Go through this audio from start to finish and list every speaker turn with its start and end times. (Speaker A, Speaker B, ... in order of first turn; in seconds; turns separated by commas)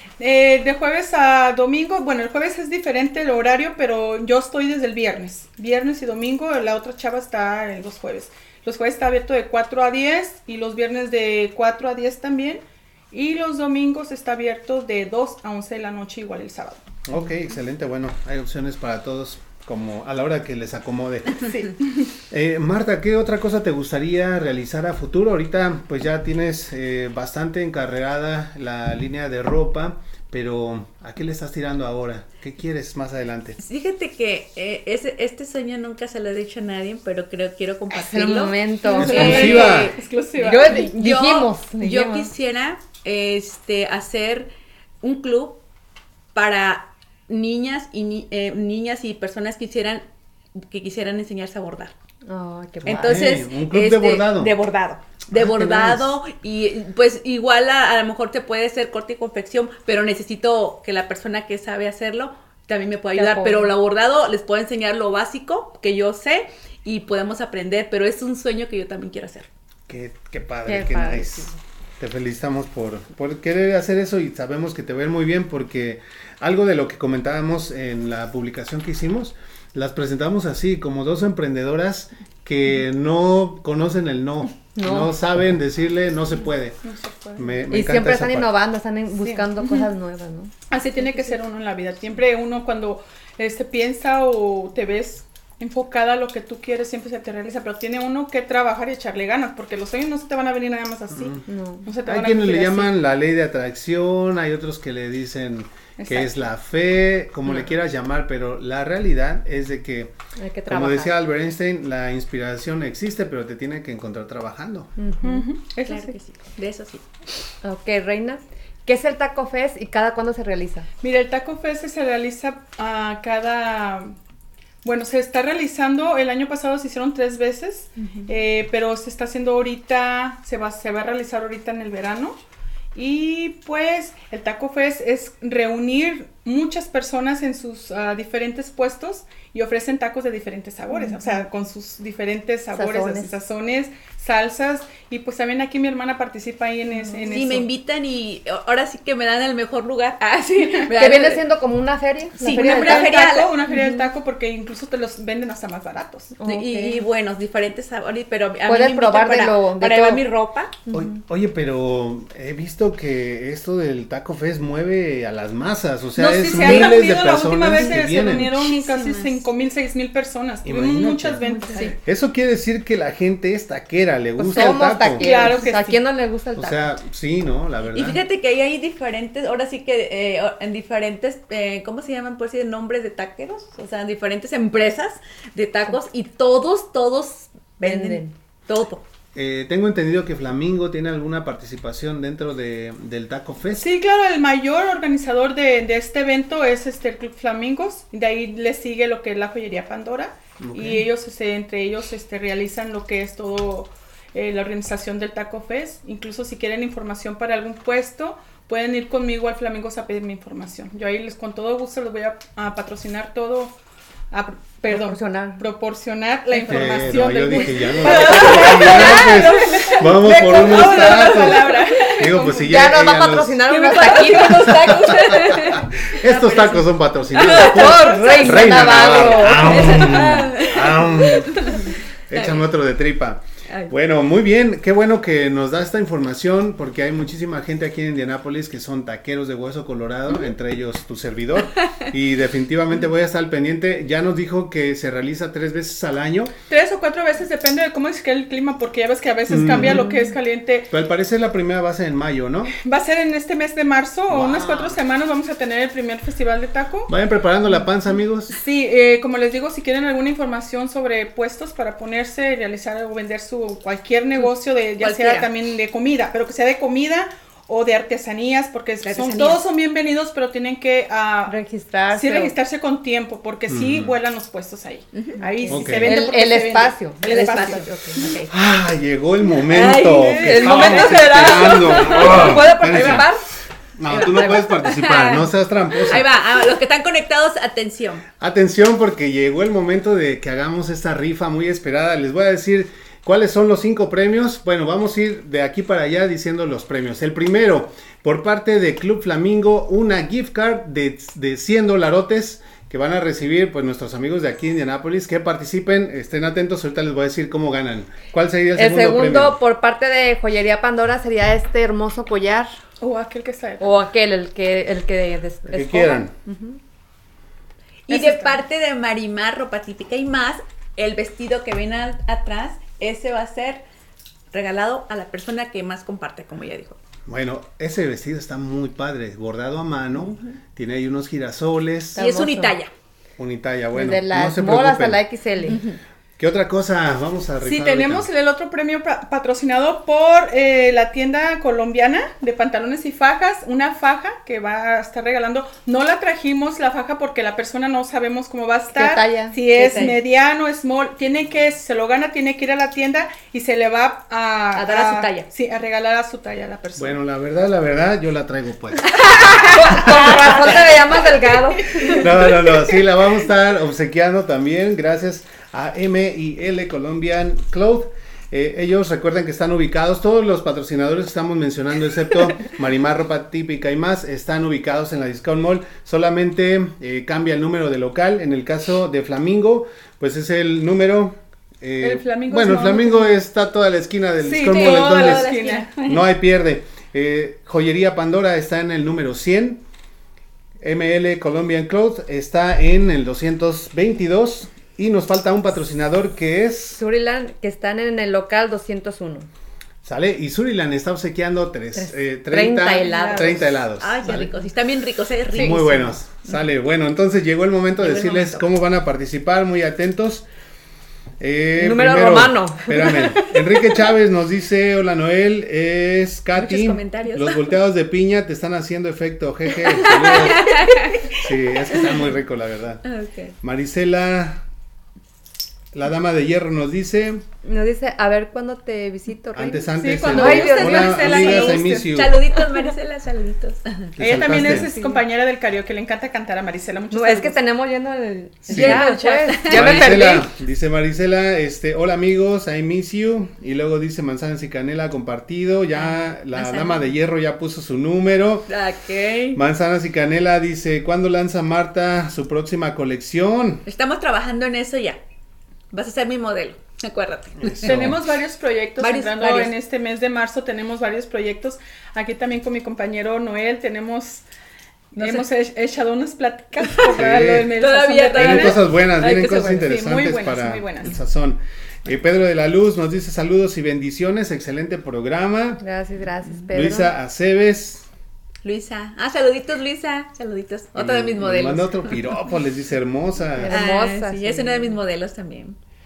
Speaker A: 0.2-16.9, Speaker B: 17.1-21.5, Speaker A: 21.5-21.8, Speaker B: 22.3-33.6, Speaker C: 33.6-40.0, Speaker D: 37.9-39.6, Speaker A: 38.9-40.9, Speaker B: 38.9-39.9, Speaker D: 40.4-42.3, Speaker C: 40.5-44.5, Speaker C: 45.0-45.6, Speaker C: 46.3-50.0, Speaker C: 50.6-51.9, Speaker D: 52.3-53.3, Speaker C: 52.8-69.5, Speaker B: 52.9-54.5, Speaker B: 55.3-56.1, Speaker D: 63.1-63.7, Speaker B: 69.9-86.8, Speaker D: 70.7-71.6, Speaker D: 84.8-85.1, Speaker A: 86.8-87.6, Speaker B: 87.4-88.5, Speaker D: 87.7-90.5, Speaker A: 89.2-89.8, Speaker A: 90.7-102.9, Speaker B: 101.1-101.4, Speaker D: 101.5-101.9, Speaker B: 102.0-110.1, Speaker A: 106.0-106.3, Speaker D: 110.3-111.1, Speaker B: 110.7-114.9, Speaker D: 115.0-115.5, Speaker A: 115.2-116.1, Speaker C: 115.8-117.0, Speaker D: 117.6-120.9, Speaker A: 121.0-124.1, Speaker A: 124.8-132.4, Speaker D: 128.0-128.3, Speaker A: 132.9-147.7, Speaker D: 142.7-143.3, Speaker D: 146.9-147.4, Speaker C: 147.3-151.4, Speaker D: 150.9-154.1, Speaker C: 152.4-153.5, Speaker A: 152.4-156.3, Speaker D: 156.4-157.0, Speaker C: 156.4-160.8, Speaker D: 158.7-160.2, Speaker D: 160.9-161.1, Speaker B: 160.9-168.5, Speaker A: 166.2-171.9, Speaker C: 166.5-166.9, Speaker D: 166.7-166.9, Speaker C: 167.8-169.4, Speaker B: 170.6-171.4, Speaker D: 171.5-171.9, Speaker C: 171.6-171.9, Speaker B: 172.0-175.3, Speaker D: 174.4-176.8, Speaker A: 174.7-176.0, Speaker B: 176.6-178.2, Speaker C: 177.9-189.0, Speaker D: 187.8-188.3, Speaker B: 189.3-193.9, Speaker A: 193.8-213.8, Speaker B: 200.6-201.0, Speaker A: 214.3-222.6, Speaker D: 214.9-215.6, Speaker B: 216.7-223.6, Speaker C: 218.1-219.5, Speaker C: 220.4-222.1, Speaker D: 222.6-225.1, Speaker C: 223.7-232.6, Speaker B: 224.7-246.5, Speaker D: 227.3-230.1, Speaker A: 228.1-228.5, Speaker A: 246.7-250.9, Speaker B: 249.5-250.1, Speaker D: 249.7-250.3, Speaker B: 250.9-252.7, Speaker A: 252.8-257.1, Speaker B: 254.3-254.9, Speaker B: 257.1-258.5, Speaker A: 258.5-271.5, Speaker C: 264.4-265.5, Speaker C: 269.0-269.6, Speaker D: 271.5-272.6, Speaker A: 272.1-277.9, Speaker B: 273.7-274.1, Speaker C: 275.1-275.4, Speaker D: 275.4-278.3, Speaker B: 275.7-276.2, Speaker C: 277.2-278.5, Speaker B: 278.5-283.3, Speaker C: 279.6-283.3, Speaker D: 280.4-283.4, Speaker A: 280.6-283.3, Speaker B: 284.0-286.2, Speaker C: 284.1-288.2, Speaker B: 288.4-309.6, Speaker D: 308.8-312.7, Speaker A: 313.0-314.0, Speaker D: 313.8-316.8, Speaker B: 315.7-316.3, Speaker C: 318.1-323.8, Speaker D: 318.1-318.6, Speaker C: 324.5-327.0, Speaker B: 327.3-332.2, Speaker D: 332.1-332.8, Speaker C: 332.2-332.9, Speaker B: 333.4-335.2, Speaker D: 333.9-335.8, Speaker C: 335.7-336.0, Speaker B: 336.4-338.3, Speaker A: 337.6-357.1, Speaker D: 348.9-349.6, Speaker C: 349.7-350.2, Speaker C: 354.8-355.5, Speaker B: 357.0-360.1, Speaker C: 359.2-360.8, Speaker D: 359.5-362.3, Speaker A: 360.7-362.7, Speaker B: 362.1-385.5, Speaker A: 382.0-383.4, Speaker D: 384.4-384.9, Speaker C: 384.6-386.0, Speaker A: 384.8-386.1, Speaker B: 386.0-389.8, Speaker B: 390.8-397.0, Speaker D: 397.0-399.5, Speaker B: 400.0-404.5, Speaker D: 401.9-403.7, Speaker A: 403.0-403.8, Speaker C: 404.0-406.6, Speaker B: 405.5-410.4, Speaker C: 408.0-408.6, Speaker B: 411.4-423.0, Speaker D: 411.8-413.6, Speaker C: 416.6-417.7, Speaker C: 419.8-422.2, Speaker C: 423.0-423.5, Speaker B: 423.6-424.6, Speaker B: 425.9-427.4, Speaker D: 427.6-431.5, Speaker B: 429.5-432.4, Speaker A: 430.0-432.6, Speaker C: 431.2-434.1, Speaker B: 434.1-434.9, Speaker A: 434.2-437.6, Speaker D: 434.6-435.2, Speaker D: 437.1-440.5, Speaker B: 438.7-439.1, Speaker C: 438.7-440.3, Speaker B: 439.6-448.7, Speaker C: 445.9-447.1, Speaker C: 448.7-449.6, Speaker B: 449.5-453.8, Speaker C: 453.9-455.2, Speaker C: 455.9-458.1, Speaker B: 457.6-458.2, Speaker A: 457.8-464.4, Speaker C: 459.0-459.7, Speaker C: 465.1-465.5, Speaker A: 465.1-468.8, Speaker B: 467.1-467.7, Speaker C: 467.8-469.9, Speaker B: 468.3-475.8, Speaker A: 469.4-471.2, Speaker D: 475.8-477.1, Speaker B: 476.7-478.1, Speaker C: 478.6-482.2, Speaker B: 480.9-483.8, Speaker D: 483.6-484.9, Speaker C: 483.7-485.8